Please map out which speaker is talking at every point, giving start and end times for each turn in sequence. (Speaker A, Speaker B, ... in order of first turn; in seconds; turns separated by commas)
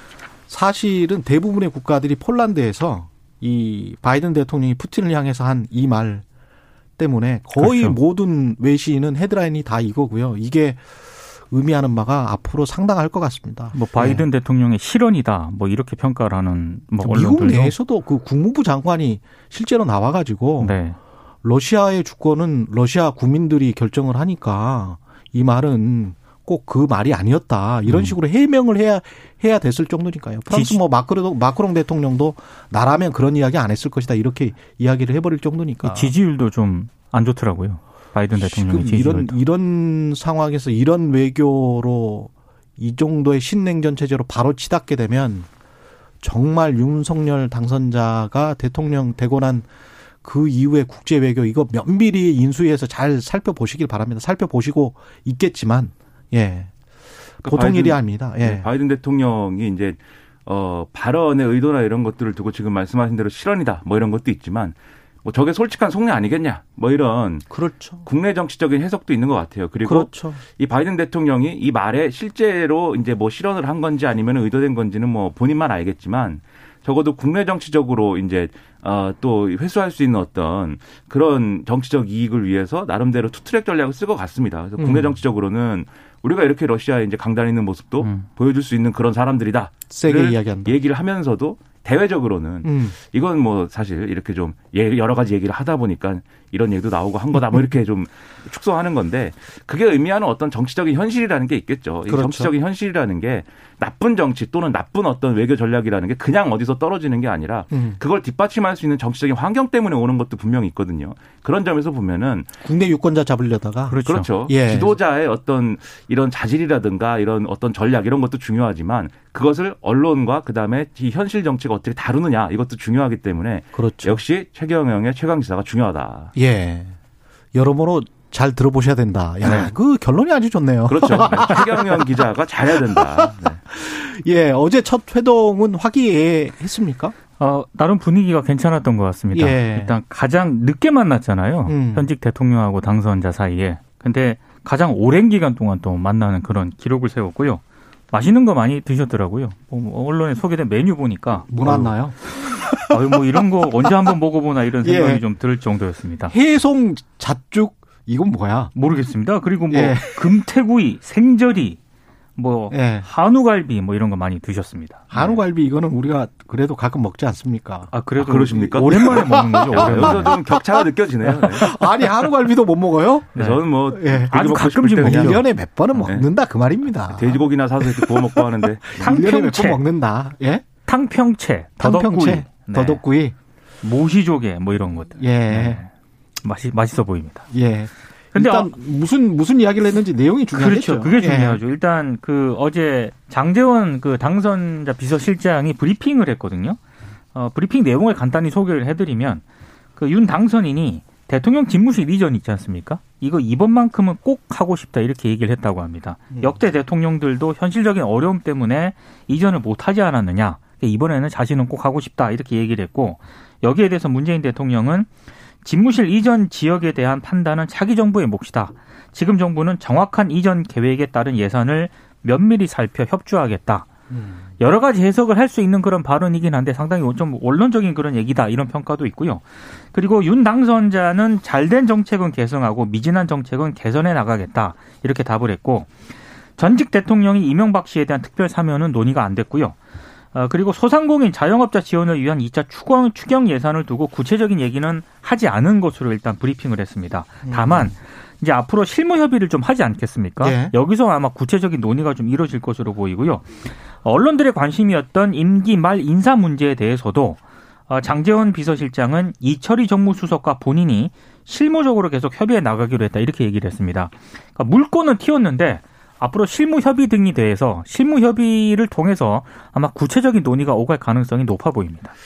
Speaker A: 0.5-6.2, Speaker A: 7.0-10.8, Speaker B: 7.6-8.0, Speaker A: 11.5-14.2, Speaker B: 13.7-17.8, Speaker A: 17.0-20.8, Speaker B: 20.6-21.0, Speaker A: 21.4-36.1, Speaker B: 27.9-28.2, Speaker B: 30.5-30.8, Speaker B: 35.8-39.4, Speaker A: 38.4-45.5, Speaker A: 46.2-49.7, Speaker A: 50.2-56.7, Speaker A: 57.4-58.7, Speaker C: 57.4-112.5, Speaker A: 67.5-68.0, Speaker A: 69.8-70.4, Speaker A: 84.8-85.2, Speaker A: 89.9-90.8, Speaker A: 92.6-93.0, Speaker A: 102.1-102.5, Speaker A: 107.7-108.0, Speaker A: 112.6-115.0, Speaker B: 113.9-114.3, Speaker C: 114.1-126.3, Speaker A: 123.8-124.2, Speaker A: 126.3-127.0, Speaker A: 127.5-132.2, Speaker C: 130.9-133.6, Speaker A: 132.8-137.1, Speaker B: 137.4-151.9, Speaker A: 139.3-139.9, Speaker A: 141.7-142.1, Speaker A: 151.5-153.4, Speaker B: 152.9-156.3, Speaker A: 154.8-155.2, Speaker A: 156.3-158.7, Speaker B: 158.8-161.8, Speaker A: 159.7-160.3, Speaker B: 162.4-165.4, Speaker A: 162.7-163.1, Speaker A: 165.1-167.9, Speaker B: 167.9-170.4, Speaker C: 168.2-171.7, Speaker A: 168.8-180.7, Speaker B: 173.3-173.6, Speaker C: 173.4-175.4, Speaker B: 174.3-175.4, Speaker C: 177.1-179.0, Speaker B: 179.0-179.8, Speaker B: 180.9-183.0, Speaker A: 181.8-183.3, Speaker B: 183.8-185.9, Speaker A: 185.2-185.8, Speaker B: 186.4-187.5, Speaker A: 187.5-191.6, Speaker B: 188.3-188.7, Speaker B: 190.6-196.8, Speaker B: 197.3-199.4, Speaker B: 200.0-215.1, Speaker B: 215.6-223.9, Speaker A: 224.1-224.4, Speaker B: 224.6-235.9, Speaker B: 236.6-239.8, Speaker B: 240.3-272.1, Speaker A: 247.4-247.9, Speaker A: 250.4-250.7